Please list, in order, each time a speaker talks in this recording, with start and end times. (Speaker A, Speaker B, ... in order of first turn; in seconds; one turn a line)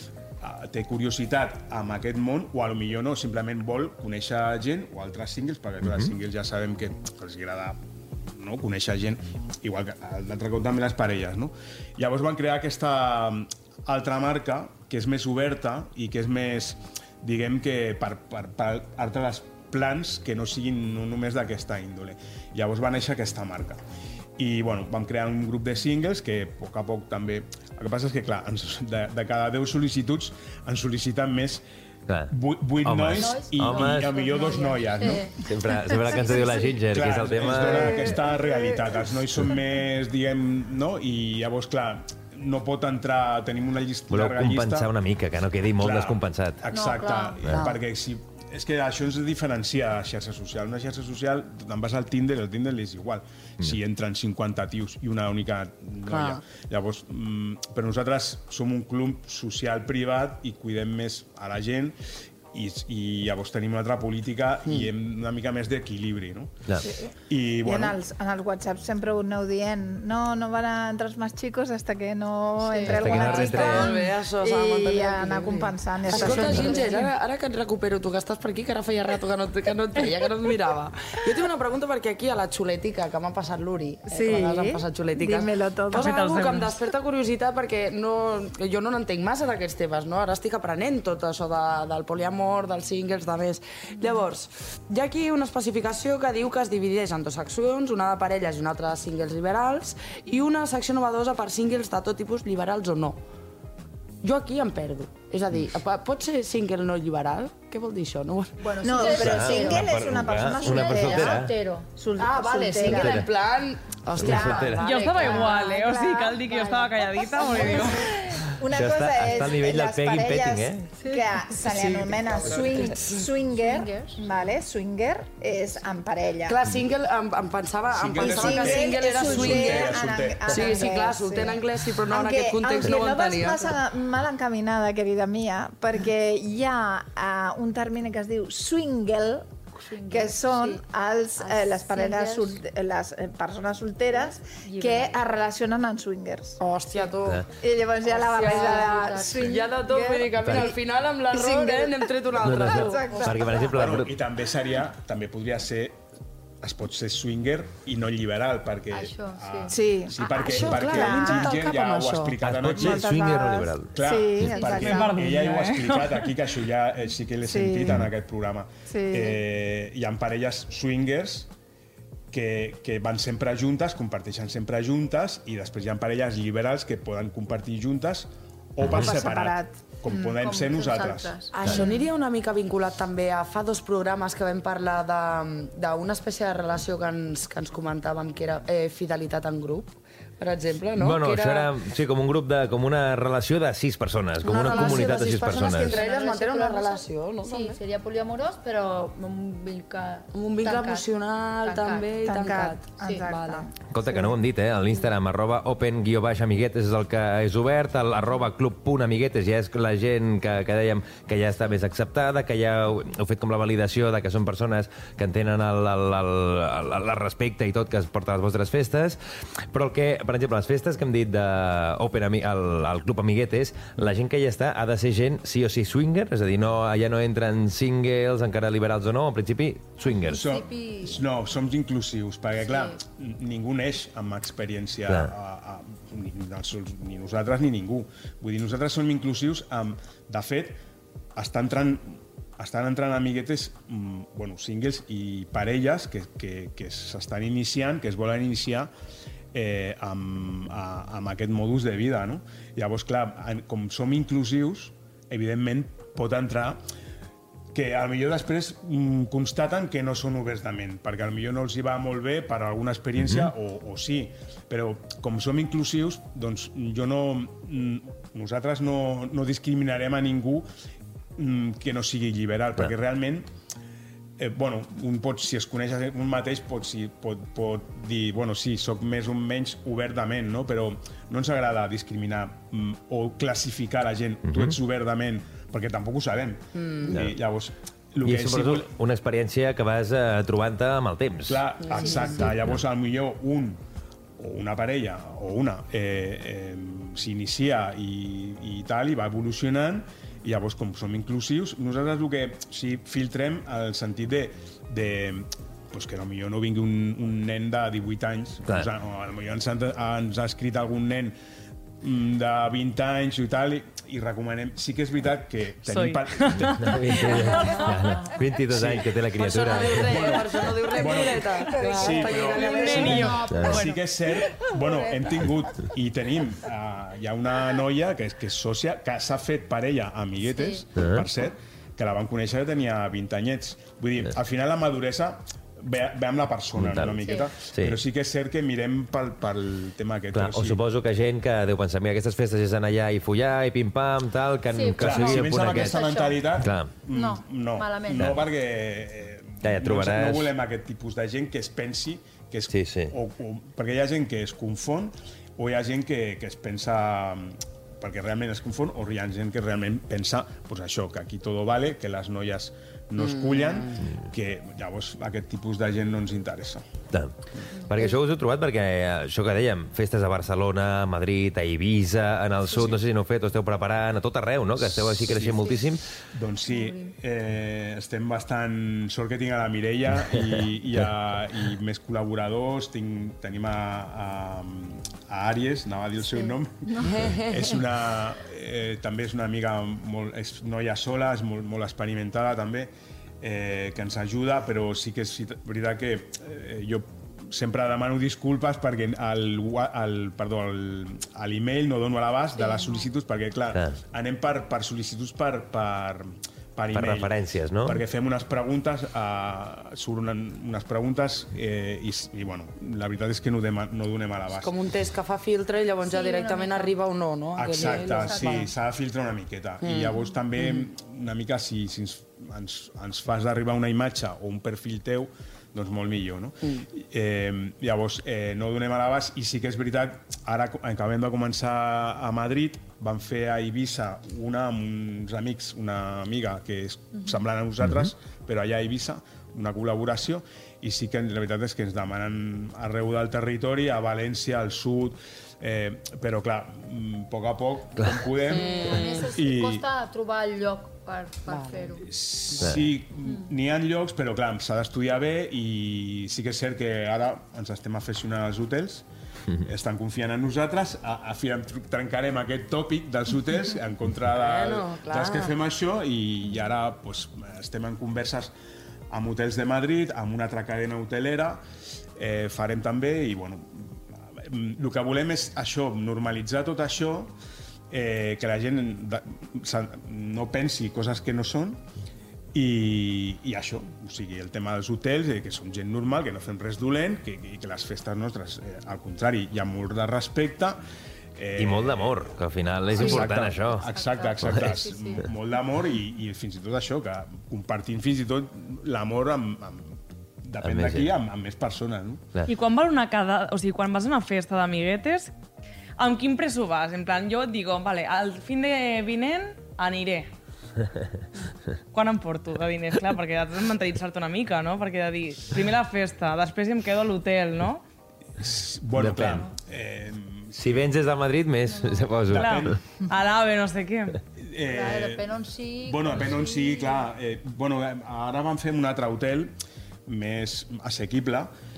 Speaker A: 0.4-23.8
Speaker B: 5.8-6.1
Speaker A: 24.4-31.6
Speaker A: 32.3-35.4
Speaker B: 32.8-34.1
Speaker C: 33.1-36.8
Speaker B: 35.4-38.0
Speaker A: 36.9-44.9
Speaker D: 38.0-38.9
Speaker B: 44.1-46.6
Speaker A: 45.8-62.0
Speaker C: 46.7-47.4
Speaker E: 47.5-47.8
Speaker E: 56.1-56.4
Speaker A: 62.5-66.7
Speaker A: 67.3-68.0
Speaker D: 67.6-77.0
Speaker C: 72.6-73.0
Speaker B: 72.8-74.0
Speaker E: 73.0-103.2
Speaker C: 76.1-77.1
Speaker D: 84.1-86.3
Speaker F: 85.9-86.7
Speaker E: 104.2-109.1
Speaker C: 108.6-110.0
Speaker D: 108.8-111.4
Speaker B: 109.1-111.5
Speaker C: 110.5-111.9
Speaker D: 111.9-113.3
Speaker E: 112.2-115.6
Speaker C: 112.8-113.2
Speaker B: 113.0-113.2
Speaker B: 114.2-114.8
Speaker D: 114.2-126.6
Speaker F: 114.8-118.2
Speaker C: 114.8-116.0
Speaker B: 118.7-120.9
Speaker C: 121.0-121.2
Speaker E: 121.6-123.3
Speaker C: 123.5-124.2
Speaker E: 126.5-133.8
Speaker A: 127.9-130.7
Speaker D: 128.2-139.5
Speaker C: 139.8-140.8
Speaker D: 140.1-146.6
Speaker C: 141.4-142.6
Speaker C: 144.6-145.1
Speaker E: 146.6-147.4
Speaker D: 147.6-150.8
Speaker E: 148.1-153.4
Speaker C: 148.4-150.0
Speaker B: 150.4-150.7
Speaker D: 151.3-153.7
Speaker B: 152.4-154.1
Speaker A: 153.7-156.0
Speaker A: 156.6-163.2
Speaker C: 158.9-159.7
Speaker D: 159.7-161.7
Speaker E: 160.4-162.4
Speaker B: 162.4-163.9
Speaker D: 162.7-165.2
Speaker A: 163.9-171.5
Speaker F: 164.5-166.3
Speaker D: 167.4-168.1
Speaker D: 168.9-169.4
Speaker A: 172.3-181.4
Speaker B: 178.8-179.2
Speaker D: 178.9-179.7
Speaker C: 180.1-182.0
Speaker E: 181.5-191.7
Speaker B: 181.6-181.9
Speaker B: 190.9-196.0
Speaker E: 194.4-197.8
Speaker C: 194.5-201.1
Speaker E: 200.3-203.7
Speaker C: 201.6-202.1
Speaker D: 202.2-203.7
Speaker B: 203.9-219.2
Speaker B: 219.7-230.4
Speaker C: 230.1-231.2
Speaker A: 230.3-240.8
Speaker C: 232.7-233.0
Speaker A: 241.3-248.9
Speaker A: 249.5-256.8
Speaker A: 257.7-270.7
Speaker B: 263.2-263.5
Speaker A: 271.4-273.5
Speaker A: 274.4-288.9
Speaker B: 284.4-284.8
Speaker E: 286.8-287.2
Speaker B: 287.1-287.4
Speaker B: 288.2-292.8
Speaker A: 291.5-293.8
Speaker E: 291.8-292.4
Speaker A: 294.4-311.4
Speaker A: 312.0-317.0
Speaker F: 315.9-318.3
Speaker B: 316.8-320.4
Speaker A: 318.7-319.2
Speaker E: 319.4-323.6
Speaker A: 319.9-340.8
Speaker D: 321.9-322.9
Speaker F: 322.6-324.0
Speaker C: 323.0-323.8
Speaker B: 323.5-323.8
Speaker C: 330.4-330.8
Speaker B: 331.0-331.2
Speaker B: 336.8-338.0
Speaker C: 337.2-337.5
Speaker B: 340.3-346.0
Speaker C: 344.7-346.5
Speaker A: 345.0-366.9
Speaker B: 346.6-346.9
Speaker C: 347.1-348.4
Speaker B: 349.6-350.5
Speaker B: 352.7-353.1
Speaker E: 363.2-364.1
Speaker B: 367.9-376.0
Speaker A: 374.8-414.7
Speaker C: 376.7-377.1
Speaker C: 386.2-387.1
Speaker E: 387.0-387.8
Speaker C: 402.6-403.1
Speaker B: 406.9-408.0
Speaker E: 414.6-418.7
Speaker C: 416.0-417.0
Speaker A: 417.6-449.9
Speaker C: 417.7-418.7
Speaker E: 419.8-420.9
Speaker B: 437.8-438.1
Speaker E: 448.4-449.3
Speaker C: 448.5-452.1
Speaker E: 451.5-451.9
Speaker A: 452.0-459.1
Speaker B: 452.6-452.9
Speaker A: 459.6-468.5
Speaker E: 464.3-465.5
Speaker A: 469.1-471.6
Speaker A: 472.2-477.3
Speaker A: 477.9-481.9
Speaker A: 482.5-490.8
Speaker A: 491.4-502.2
Speaker B: 491.6-493.9
Speaker C: 493.0-495.3
Speaker B: 494.4-494.7
Speaker B: 500.6-501.1
Speaker F: 502.5-505.3
Speaker F: 506.0-510.3
Speaker F: 511.9-517.8
Speaker A: 518.4-520.9
Speaker B: 519.0-519.5
Speaker B: 520.6-522.8
Speaker C: 521.7-522.2
Speaker A: 522.3-522.8
Speaker F: 522.3-524.2
Speaker A: 524.4-525.3
Speaker C: 524.6-527.1
Speaker A: 525.8-529.5
Speaker A: 530.1-531.5